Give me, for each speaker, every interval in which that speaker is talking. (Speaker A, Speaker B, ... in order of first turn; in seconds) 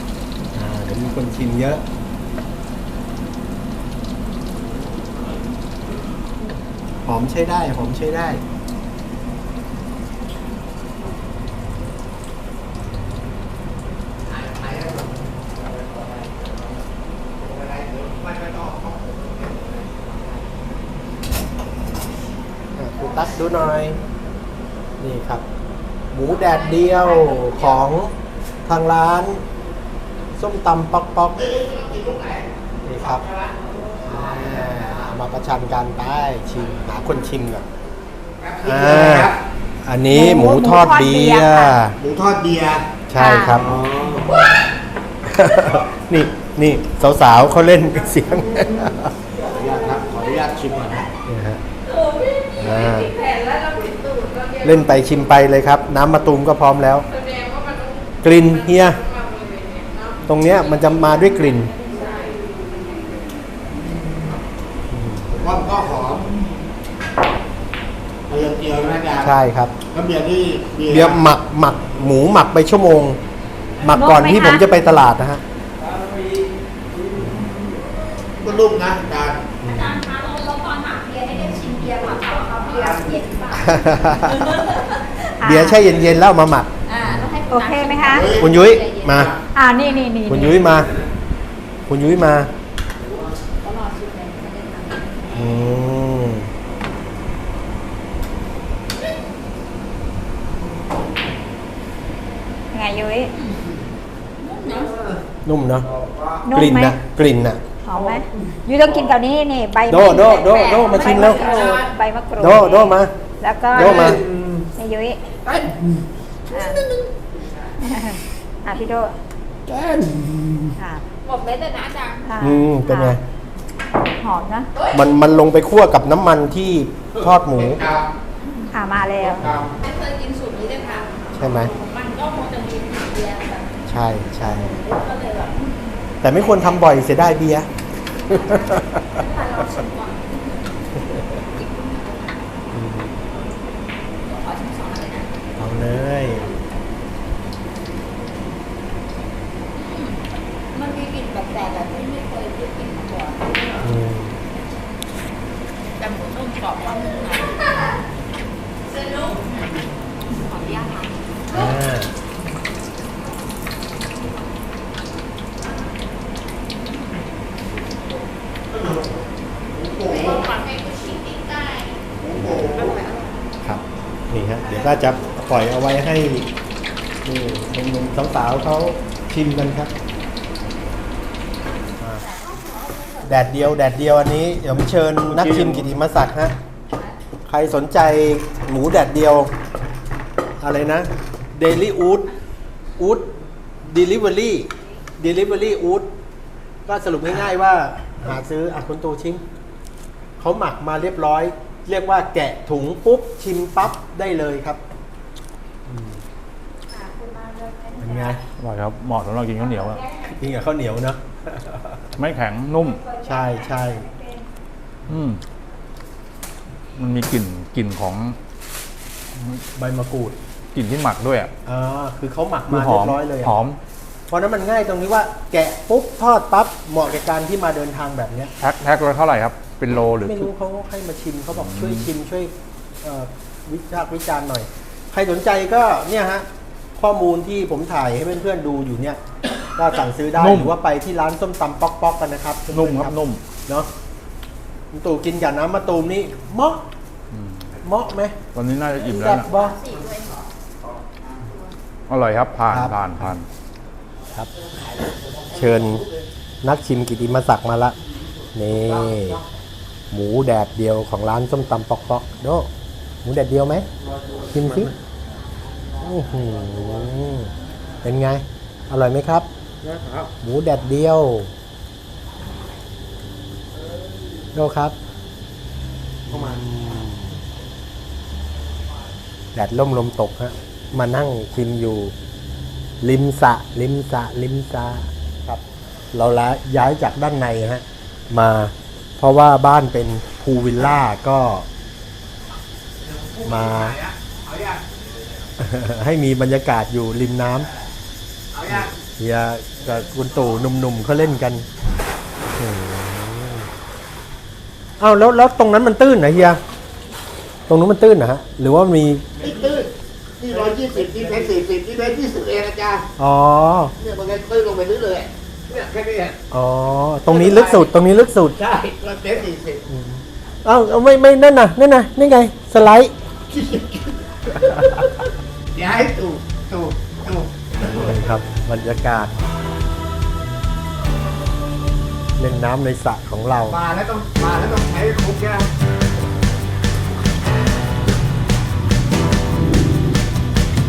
Speaker A: 0.5-1.8, 7.0-8.4, 22.8-24.0, 25.0-25.4, 26.1-29.4, 30.4-31.5, 32.8-33.2, 34.0-37.7, 38.6-39.3, 39.8-42.0, 43.1-43.7, 45.2-49.3, 51.2-51.6, 52.5-53.2, 54.6-57.1, 58.2-59.0, 60.2-61.7, 64.9-65.3, 69.2-69.8, 70.8-73.2, 73.8-75.4, 77.1-77.5, 79.6-80.0, 83.5-84.7, 85.4-87.3, 88.4-89.3, 90.3-90.9, 91.9-92.5, 95.3-96.5, 105.4-105.9, 106.5-107.6, 109.9-111.6, 112.4-113.1, 113.7-114.2, 122.4-123.2, 124.9-127.8, 129.4-129.7, 131.3-131.7, 133.9-134.8, 136.2-139.3, 141.0-141.4, 142.7-143.2, 145.6-146.5, 153.8-154.4, 161.5-162.1, 172.3-172.8, 173.6-176.5, 177.2-179.9, 182.0-182.2, 183.2-186.6, 187.4-189.5, 190.6-192.3, 193.0-193.3, 193.8-196.1, 196.8-199.4, 200.4-204.8, 205.9-206.2, 208.0-208.4, 210.2-212.1, 213.2-214.1, 219.3-220.4, 221.6-223.6, 224.3-228.5, 230.2-239.2, 239.7-243.9, 244.9-246.8, 247.8-248.4, 249.0-249.8, 252.7-253.3, 255.5-256.1, 256.6-257.9, 258.5-259.4, 260.1-262.7, 263.2-263.9, 264.5-264.9, 266.0-269.5, 270.4-271.5, 274.5-274.9, 276.3-277.4, 279.5-282.1, 283.0-291.6, 293.4-294.0, 295.6-297.7, 298.7-301.6, 302.6-303.7, 305.0-306.6, 307.7-309.4, 313.2-313.9, 316.5-318.6, 319.9-323.1, 324.7-325.1, 327.8-329.3, 332.4-333.8
Speaker B: 14.3-16.6, 17.4-20.5, 31.4-35.2, 38.4-39.4, 42.0-42.9, 43.5-44.4, 49.4-51.1, 65.3-66.5, 68.3-69.3, 69.9-71.3, 75.8-76.4, 78.4-79.5, 82.7-83.2, 88.1-89.4, 105.9-106.4, 113.7-114.7, 115.4-116.0, 119.7-120.7, 127.5-128.1, 129.3-129.7, 168.7-169.2, 169.7-170.5, 172.2-173.0, 254.5-256.2, 258.7-259.4, 264.1-264.9, 269.8-270.3, 293.0-294.9, 298.5-298.9, 309.4-313.1, 314.0-316.4, 317.2-317.9, 318.5-319.8, 323.5-325.1, 325.7-328.1, 333.6-335.7
Speaker C: 26.5-27.6, 51.8-54.5, 57.3-57.9, 59.2-63.2, 79.6-85.2, 86.8-89.3, 93.6-95.4, 104.4-105.0, 110.8-111.9, 121.2-122.2, 129.8-133.8, 134.4-136.8, 138.2-142.7, 144.1-145.3, 149.8-153.9, 156.0-158.0, 158.9-159.8, 160.3-161.6, 170.2-171.8, 172.8-173.4, 182.1-183.6, 209.8-210.1, 249.3-250.5
Speaker D: 40.1-41.8, 43.2-43.6, 61.9-62.3, 73.8-74.8, 81.2-83.7, 85.0-85.8, 87.5-88.3, 89.5-90.6, 102.7-103.3, 106.5-107.0, 107.8-114.2, 114.7-115.3, 116.5-116.9, 117.8-119.2, 120.8-121.1, 122.2-123.2, 124.2-124.7, 128.7-129.4, 206.9-208.3, 213.1-214.4
Speaker E: 185.3-185.9, 208.6-210.0, 212.2-213.1, 215.1-215.4, 216.9-218.4, 220.7-221.5, 222.7-223.8, 228.6-230.5, 231.7-232.0, 240.4-240.7, 242.7-243.4, 247.3-247.7, 248.5-249.5, 252.1-253.5